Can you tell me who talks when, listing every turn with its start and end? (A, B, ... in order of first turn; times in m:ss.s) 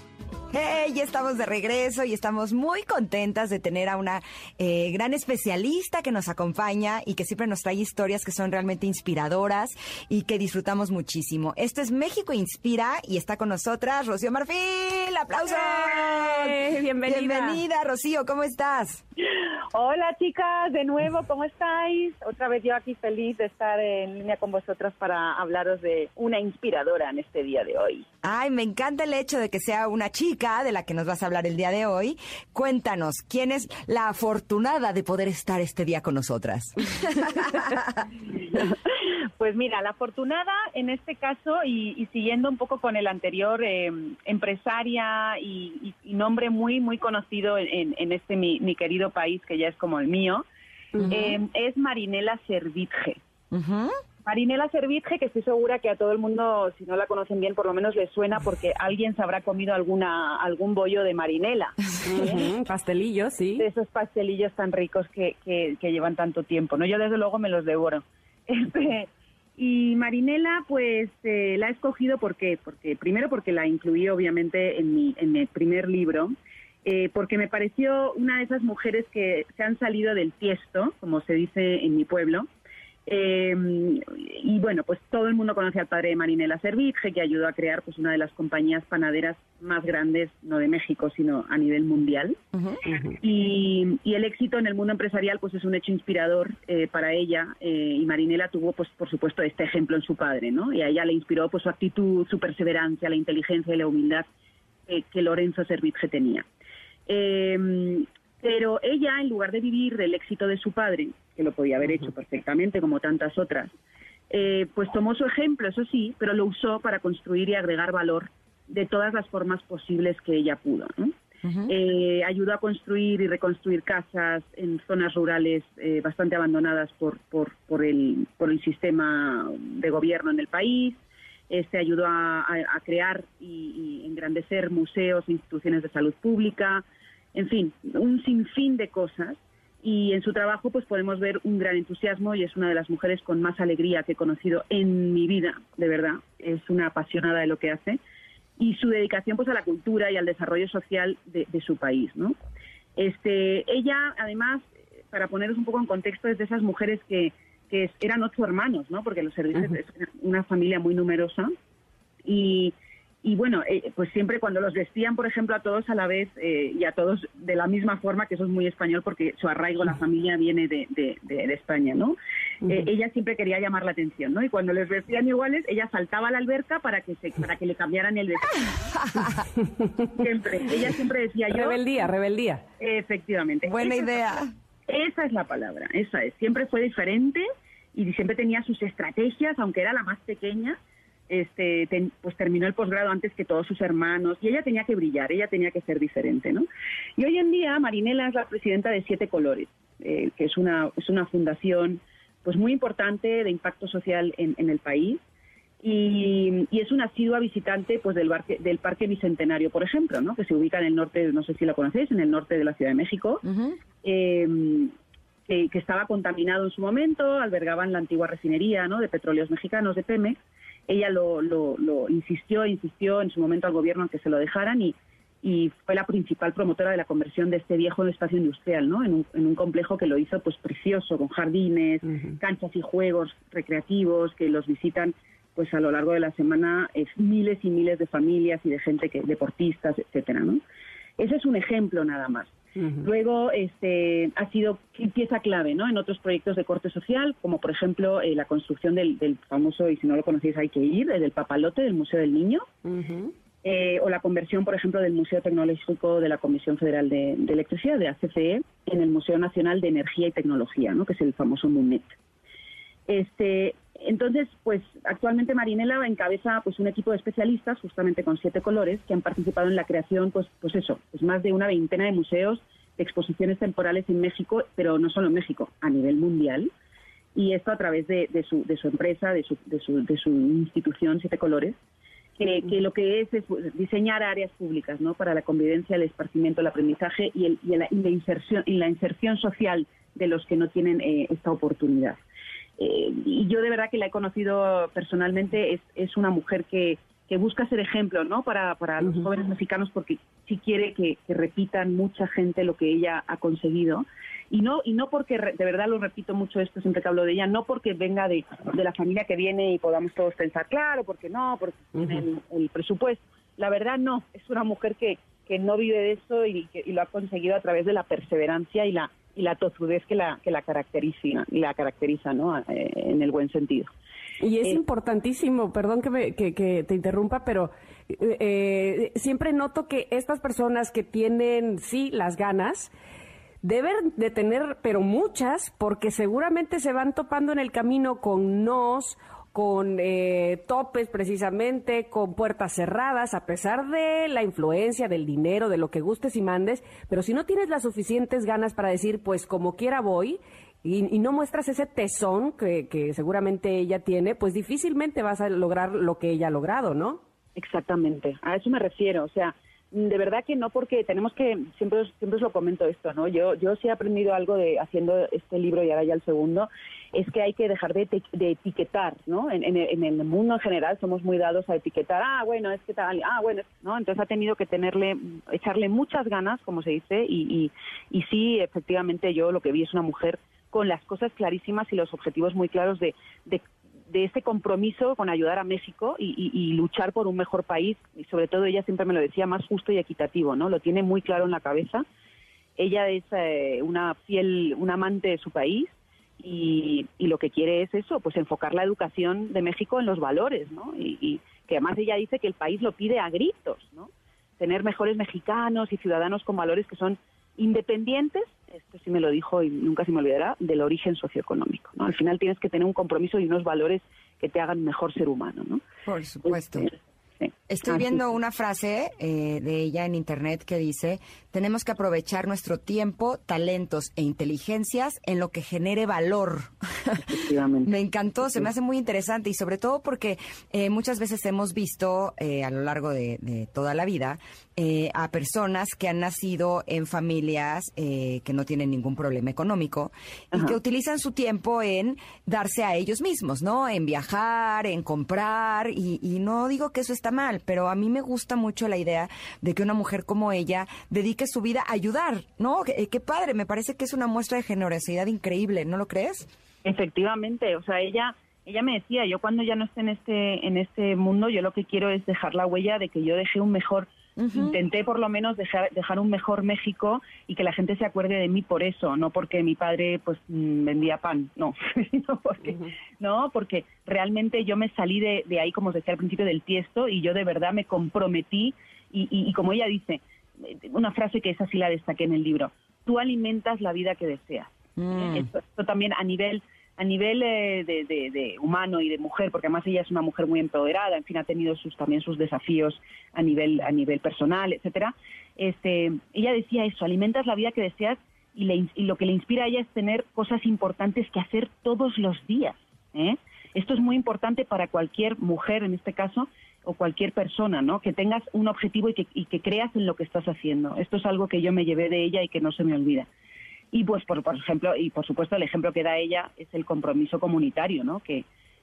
0:00.5-0:19.0 A
0:15.5-0:17.6 B
0:19.3-0:28.1 C
0:28.2-0:38.1 A
0:38.6-0:50.4 C
0:51.0-0:51.4 A
0:51.1-0:53.2 C
0:53.5-0:54.0 A
0:54.2-1:02.5 C
1:02.0-1:03.7 B
1:03.6-1:22.5 C
1:23.1-1:32.4 C
1:32.5-1:32.8 A
1:33.1-1:44.3 C
1:44.9-1:46.4 C
1:47.1-1:53.7 C
1:54.3-2:01.1 C
2:01.4-2:01.7 A
2:01.7-2:16.8 C
2:17.3-2:28.0 C
2:28.6-2:32.4 C
2:33.0-2:41.5 C
2:42.2-2:58.7 C
2:58.9-2:59.4 A
2:59.6-3:00.7 B
3:00.2-3:01.9 C
3:01.5-3:02.6 B
3:02.8-3:04.2 C
3:03.6-3:04.5 A
3:04.9-3:10.8 C
3:11.3-3:25.2 C
3:25.8-3:33.4 C
3:33.4-3:33.8 A
3:34.0-3:34.9 C
3:35.5-4:00.6 C
4:01.2-4:02.5 C
4:02.8-4:03.1 B
4:03.0-4:12.7 C
4:12.8-4:13.3 B
4:13.6-4:22.1 C
4:23.1-4:36.7 C
4:37.4-4:41.8 C
4:42.4-4:52.2 C
4:52.8-5:23.9 C
5:24.4-5:32.9 B
5:33.6-5:57.2 B
5:57.6-6:32.0 C
6:32.8-6:55.8 C
6:56.1-6:56.9 A
6:56.7-6:56.9 C
6:57.4-6:58.2 C
6:57.7-7:36.5 A
7:07.3-7:07.9 C
7:36.8-8:33.3 C
7:44.4-7:44.8 A
8:05.0-8:05.5 A
8:33.9-8:38.4 C